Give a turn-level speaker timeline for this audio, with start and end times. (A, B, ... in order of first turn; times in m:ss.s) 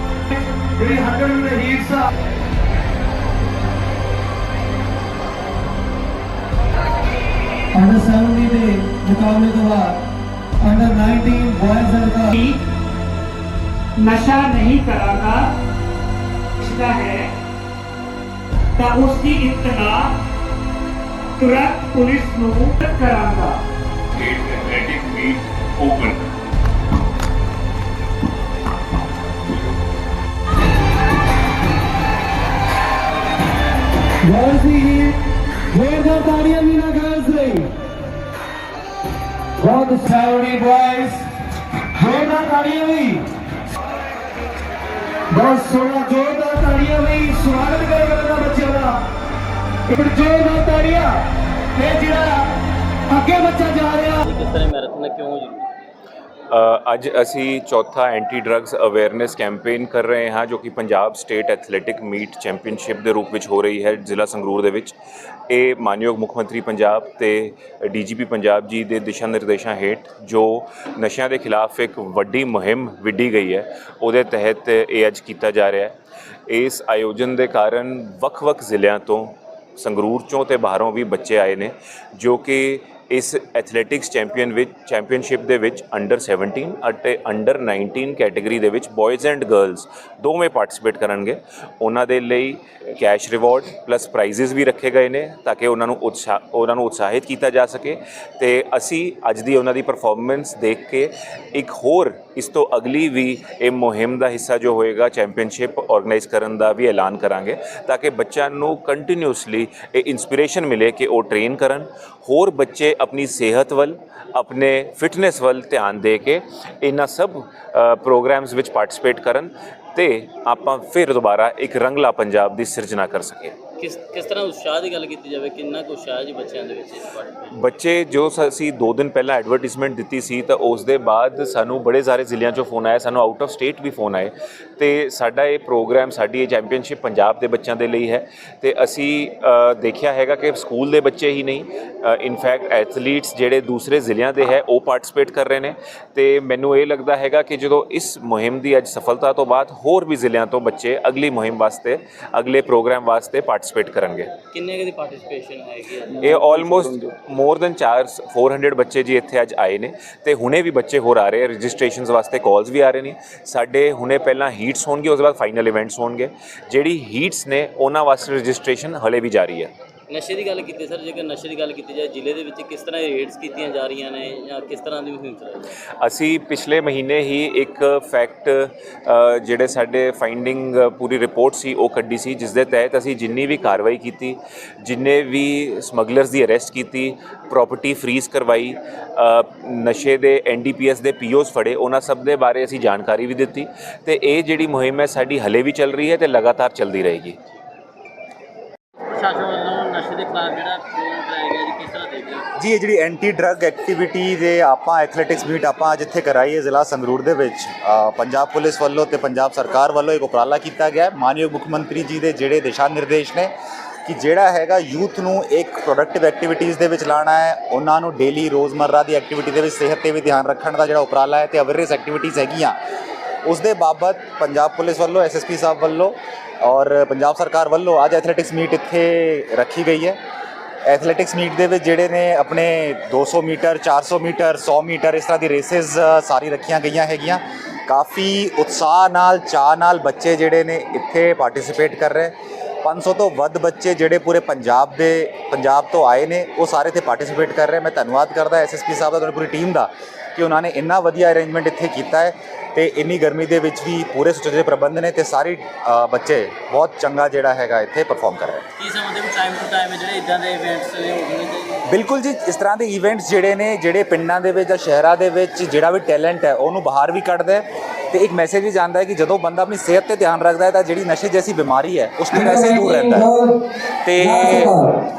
0:00.8-0:02.1 A
0:07.7-0:10.0 A
0:10.6-0:12.3 A
0:12.3-0:12.6 B
0:14.0-0:15.5 B
0:16.6-0:17.3 B
0:18.8-0:20.2 B
0:21.4-0:23.6 B
0:24.1-0:26.3 C
0:34.2-0:35.2 A
0:35.7-0:37.7 A
0:39.6-0:41.3 A
0:41.9-0:43.3 A
0:45.3-0:49.0 A
0:49.9-0:51.2 A
0:51.8-0:52.6 A
0:53.1-0:54.3 A
0:54.2-0:55.7 D
0:56.5-1:05.0 C
1:05.5-1:15.9 C
1:16.5-2:03.6 C
2:03.8-2:07.3 D
2:07.6-2:34.4 C
2:34.5-2:36.3 D
2:36.2-2:49.7 C
2:50.1-2:55.7 D
2:56.0-3:17.4 C
3:19.1-3:22.4 D
3:22.6-3:33.5 E
3:34.1-3:42.8 E
3:43.4-3:50.2 E
3:50.9-4:18.6 E
4:18.8-4:21.8 D
4:21.9-4:33.3 E
4:32.3-4:33.5 A
4:34.1-4:34.8 E
4:34.1-4:34.9 A